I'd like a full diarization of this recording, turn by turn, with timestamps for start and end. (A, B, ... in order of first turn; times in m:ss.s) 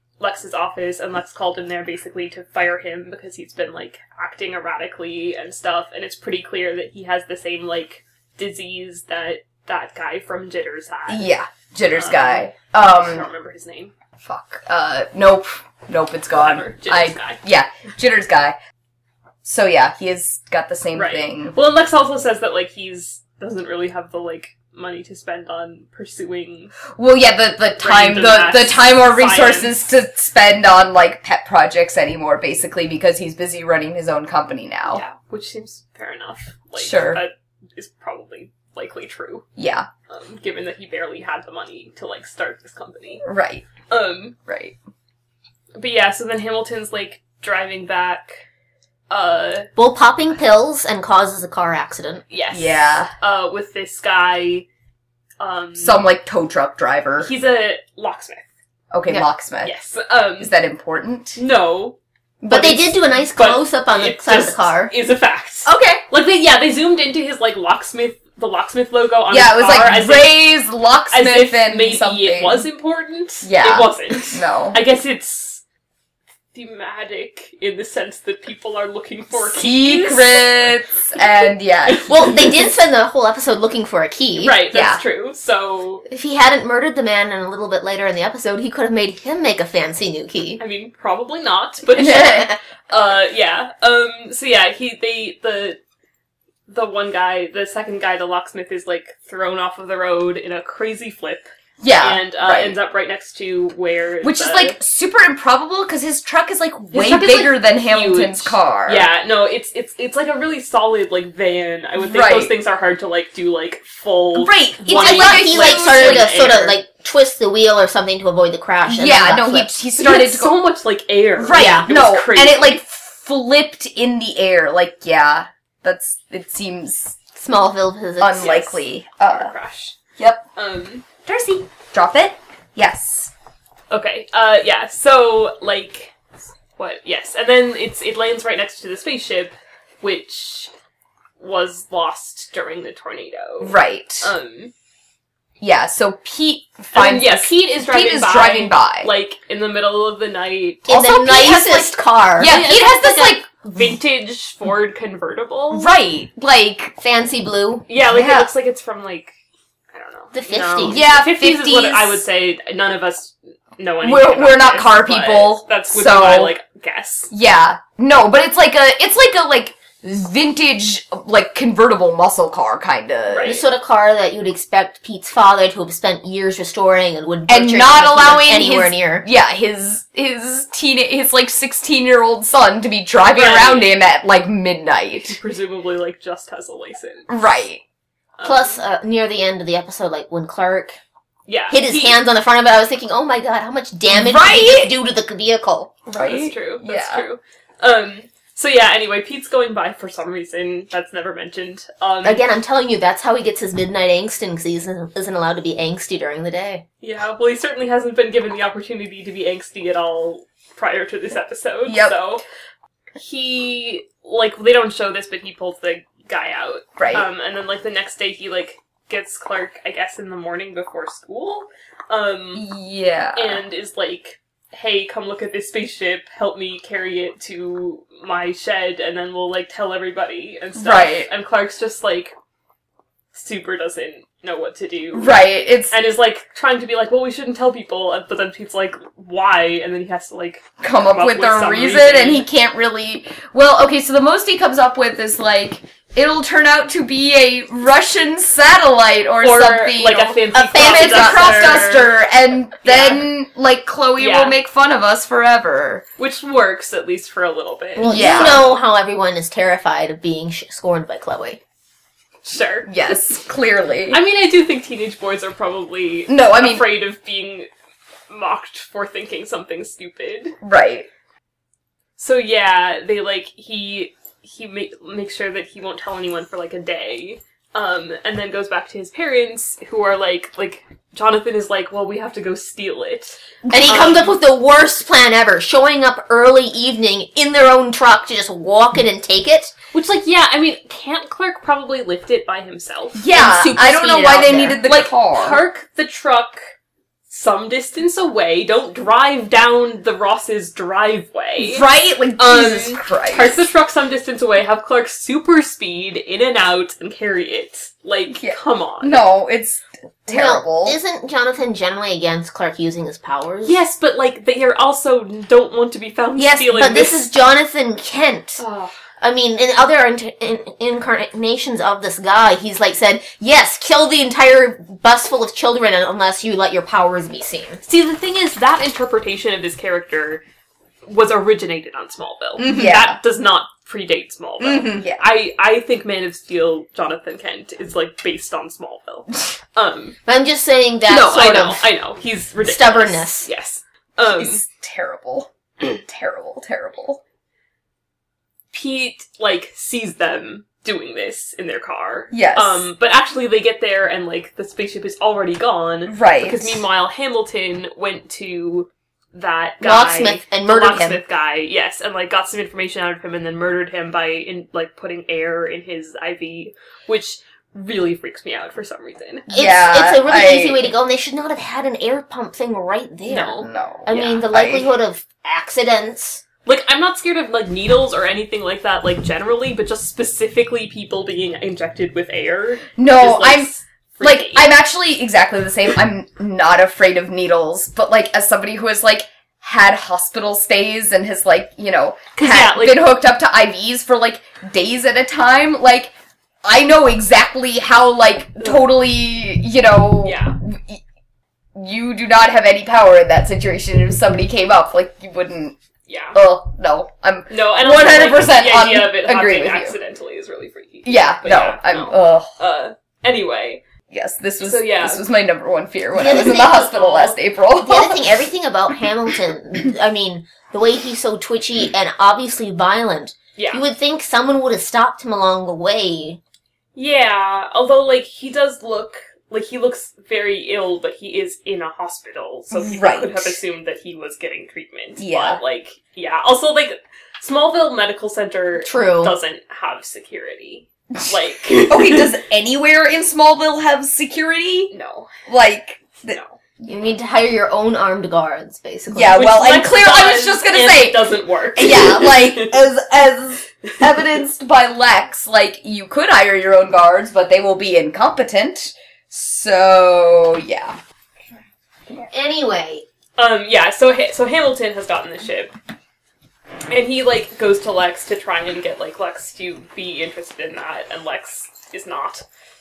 0:00.2-0:11.3 A
0:11.1-0:13.3 B
0:11.9-0:13.9 A
0:14.2-0:18.6 B
0:16.3-0:17.4 A
0:19.4-0:21.6 B
0:21.0-0:26.8 A
0:27.0-0:35.0 B
0:27.8-0:29.7 A
0:34.9-0:39.5 A
0:36.8-0:37.2 B
0:39.6-0:39.9 B
0:40.1-0:43.2 A
0:43.2-0:43.7 B
0:43.9-0:44.4 A
0:44.5-0:44.8 B
0:45.8-0:48.4 A
0:49.1-0:49.7 A
0:49.8-0:52.2 C
0:52.3-0:54.7 A
0:52.5-0:53.1 B
0:55.4-0:56.0 A
0:55.8-0:57.3 B
0:57.2-0:58.5 A
0:58.9-0:59.7 B
0:59.6-1:00.5 A
1:00.4-1:01.4 B
1:01.4-1:02.0 A
1:02.4-1:03.0 B
1:02.5-1:04.9 C
1:03.2-1:10.4 A
1:05.7-1:06.0 C
1:09.3-1:12.7 B
1:11.1-1:15.6 A
1:13.4-1:14.8 B
1:16.5-1:20.8 A
1:19.4-1:22.4 B
1:22.0-1:24.6 C
1:24.4-1:26.0 A
1:24.7-1:25.0 B
1:26.1-1:30.6 C
1:30.6-1:35.8 A
1:31.9-1:32.5 B
1:36.7-1:44.8 A
1:41.8-1:42.8 B
1:44.2-1:49.1 B
1:46.9-1:56.8 A
1:52.0-1:52.5 B
1:54.3-1:56.4 B
1:54.8-1:59.7 C
1:58.9-2:00.6 B
2:00.0-2:02.8 A
2:01.4-2:07.2 B
2:01.5-2:01.9 C
2:07.4-2:08.8 C
2:08.2-2:09.5 B
2:08.4-2:10.0 A
2:10.2-2:10.4 B
2:10.6-2:11.1 A
2:11.3-2:13.3 B
2:13.9-2:16.2 A
2:16.8-2:20.7 A
2:21.4-2:24.7 A
2:23.6-2:24.3 B
2:25.6-2:29.1 B
2:26.9-2:31.0 A
2:30.9-2:32.8 C
2:30.9-2:33.5 B
2:32.4-2:35.9 A
2:35.7-2:37.0 B
2:37.0-2:37.9 C
2:37.9-2:39.4 A
2:38.1-2:38.5 B
2:39.9-2:47.3 A
2:40.3-2:41.0 C
2:40.9-2:42.2 B
2:44.0-2:46.6 B
2:47.3-2:53.6 B
2:53.3-2:53.6 A
2:53.4-2:59.3 C
2:57.5-3:05.4 B
3:03.3-3:03.9 A
3:05.2-3:07.3 A
3:07.3-3:07.8 B
3:08.4-3:08.8 A
3:08.4-3:11.0 C
3:11.5-3:12.2 A
3:11.7-3:16.0 C
3:14.1-3:15.0 B
3:16.1-3:17.2 B
3:16.2-3:22.4 A
3:22.2-3:26.8 C
3:27.0-3:32.4 A
3:31.8-3:32.2 B
3:33.2-3:42.7 A
3:37.0-3:37.3 B
3:42.6-3:43.6 B
3:43.4-3:52.4 A
3:50.8-3:51.3 B
3:53.3-4:02.5 A
3:55.1-3:56.0 B
4:00.8-4:16.1 B
4:09.4-4:12.2 A
4:10.5-4:11.9 C
4:12.8-4:13.3 A
4:14.2-4:14.6 A
4:16.2-4:18.8 A
4:18.0-4:21.6 C
4:18.0-4:18.7 B
4:22.4-4:23.4 A
4:22.9-4:24.2 B
4:24.1-4:27.7 A
4:26.3-4:26.9 B
4:28.3-4:30.6 A
4:30.6-4:31.1 B
4:32.2-4:44.3 A
4:43.6-4:44.2 B
4:43.7-4:49.7 C
4:49.9-4:53.3 A
4:53.2-4:55.6 B
4:53.3-4:54.8 C
4:54.8-4:56.6 A
4:57.3-5:01.9 A
5:01.6-5:03.6 B
5:02.4-5:09.2 A
5:08.4-5:11.0 B
5:10.3-5:13.8 C
5:13.6-5:17.3 A
5:16.4-5:18.6 C
5:18.6-5:18.9 A
5:19.2-5:27.8 C
5:27.8-5:30.4 A
5:31.1-5:40.2 A
5:32.6-5:33.0 C
5:32.7-5:33.2 B
5:34.6-5:35.0 C
5:40.3-5:41.8 C
5:41.1-5:44.6 A
5:41.2-5:41.6 B
5:42.6-5:43.5 C
5:44.3-5:47.2 B
5:48.7-6:09.5 A
5:52.3-5:52.9 B
5:56.1-5:56.8 B
5:59.8-6:01.2 C
6:09.5-6:16.4 C
6:09.5-6:10.9 B
6:13.3-6:14.3 A
6:13.6-6:14.9 B
6:16.7-6:24.7 A
6:23.0-6:36.1 B
6:32.4-6:33.0 A
6:36.6-6:41.0 B
6:40.2-6:40.6 A
6:41.8-6:45.8 B
6:46.1-6:46.4 A
6:46.3-6:50.0 B
6:47.5-6:53.8 A
6:51.0-6:52.5 B
6:54.1-6:58.2 B
6:54.6-6:55.2 A
6:56.1-6:57.0 C
6:56.5-6:57.4 A
6:57.8-7:06.4 C
7:03.6-7:03.8 A
7:07.0-7:22.3 A
7:12.7-7:13.6 B
7:15.2-7:15.6 B
7:18.8-7:19.4 C
7:21.9-7:24.9 B
7:24.9-7:25.4 A
7:25.5-7:26.4 B
7:26.3-7:26.6 A
7:26.9-7:29.4 C
7:29.1-7:41.0 B
7:29.3-7:32.8 A
7:33.8-7:34.1 A
7:42.3-7:43.0 C
7:43.4-7:45.7 A
7:46.9-7:52.4 A